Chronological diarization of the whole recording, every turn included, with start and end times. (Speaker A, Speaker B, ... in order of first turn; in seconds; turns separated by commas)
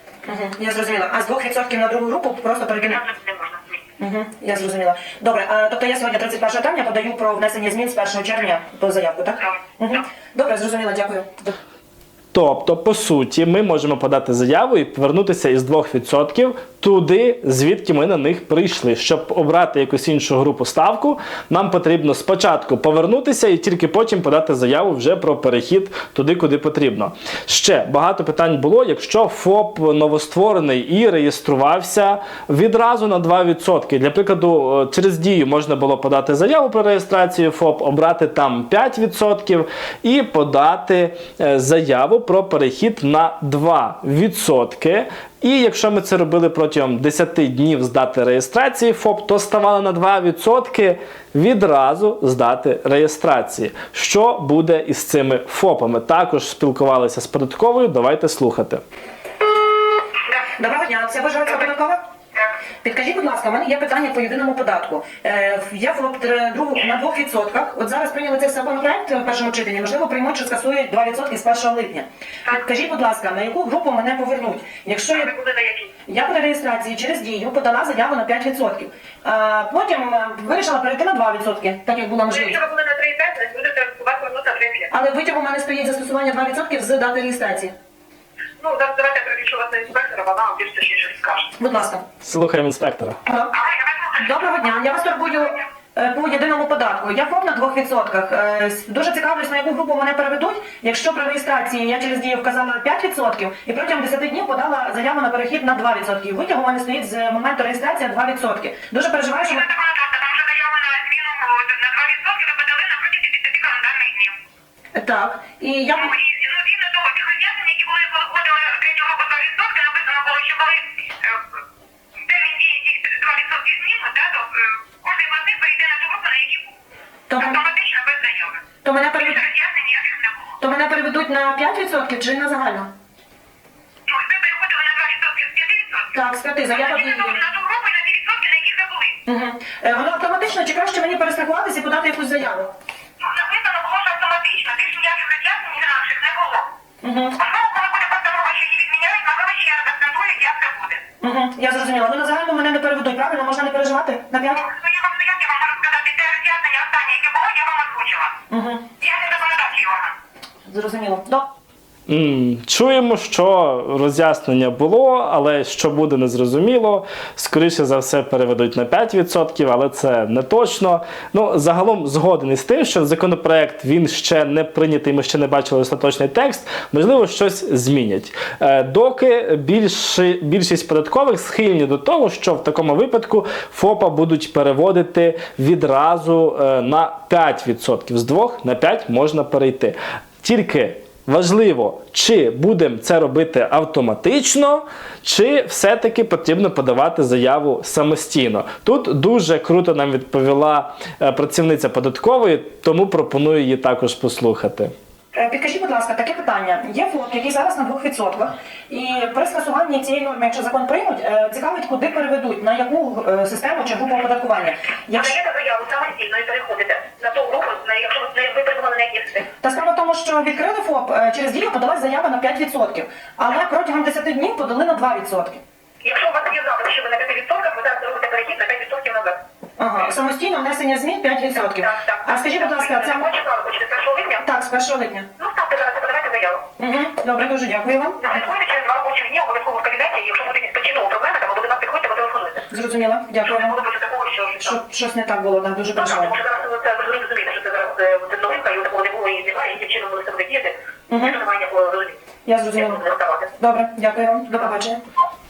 Speaker A: 0.3-3.0, Speaker B: 2.9-3.8, Speaker A: 4.0-11.6, Speaker C: 12.3-58.8, Speaker A: 60.3-62.0, Speaker A: 62.8-75.3, Speaker B: 75.1-75.9, Speaker A: 76.1-82.6, Speaker B: 82.3-84.9, Speaker A: 84.9-87.7, Speaker B: 88.6-91.5, Speaker A: 91.6-92.0, Speaker C: 92.2-93.2, Speaker A: 93.3-93.5, Speaker B: 93.5-95.4, Speaker A: 94.2-109.7, Speaker B: 109.4-114.4, Speaker A: 114.9-116.2, Speaker B: 116.0-121.4, Speaker B: 122.2-126.8, Speaker A: 127.3-127.6, Speaker B: 127.4-128.7, Speaker A: 128.8-129.4, Speaker B: 129.2-130.5, Speaker A: 130.6-132.9, Speaker B: 134.1-136.1, Speaker A: 136.1-137.4, Speaker B: 136.7-139.2, Speaker A: 139.3-142.7, Speaker B: 143.2-146.7, Speaker A: 147.0-147.4, Speaker B: 147.4-151.0, Speaker A: 151.2-154.7, Speaker B: 154.6-158.4, Speaker A: 158.5-158.9, Speaker B: 159.0-160.2, Speaker A: 160.7-161.5, Speaker C: 162.1-204.9, Speaker A: 205.3-215.4, Speaker B: 215.2-219.5, Speaker A: 219.6-225.6, Speaker B: 226.0-229.4, Speaker A: 229.8-233.3, Speaker B: 231.7-234.4, Speaker A: 234.4-235.3, Speaker B: 235.4-236.7, Speaker A: 236.8-238.4, Speaker B: 238.2-242.7, Speaker A: 242.7-243.8, Speaker B: 243.4-244.7, Speaker A: 244.6-246.3, Speaker B: 246.0-252.2, Speaker A: 251.1-251.4, Speaker A: 252.5-253.1, Speaker B: 252.8-253.5, Speaker A: 253.6-255.0